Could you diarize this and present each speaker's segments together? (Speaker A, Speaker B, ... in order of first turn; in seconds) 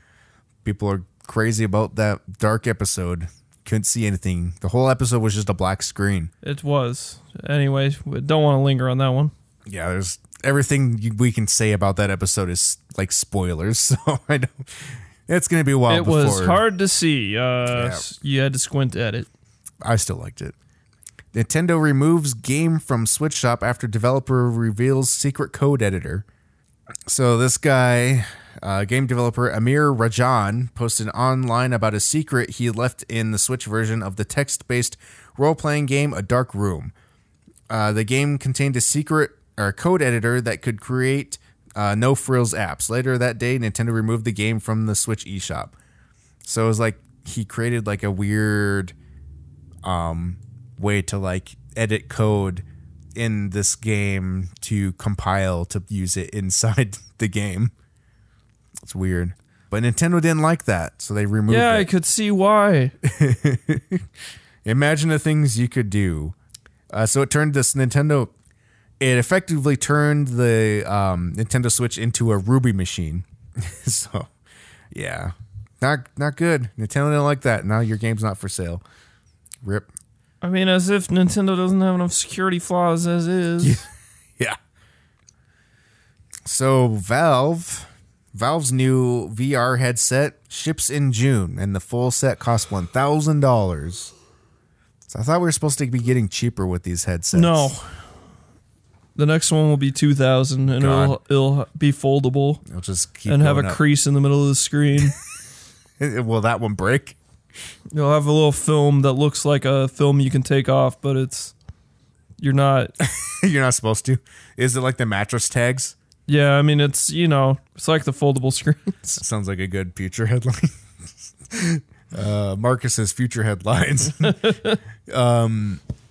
Speaker A: 0.7-6.3, 9.7-16.6, 17.7-18.1, 19.8-20.6, 21.3-26.2, 27.1-36.9, 37.7-45.7, 46.4-49.0, 49.8-57.7, 58.8-61.9, 63.0-64.0, 64.7-66.3, 66.9-68.3, 69.0-74.3, 74.9-78.8, 79.6-79.9, 83.6-83.9, 86.5-94.1, 95.1-97.7, 100.8-101.2, 102.7-103.8, 106.0-107.2, 113.0-116.0, 119.1-125.8
Speaker B: 6.4-9.3, 15.9-19.3, 61.5-63.0, 80.4-83.8, 97.3-97.8, 99.2-102.6, 103.3-105.2, 107.9-111.5, 112.4-112.9, 116.3-119.1, 124.4-124.8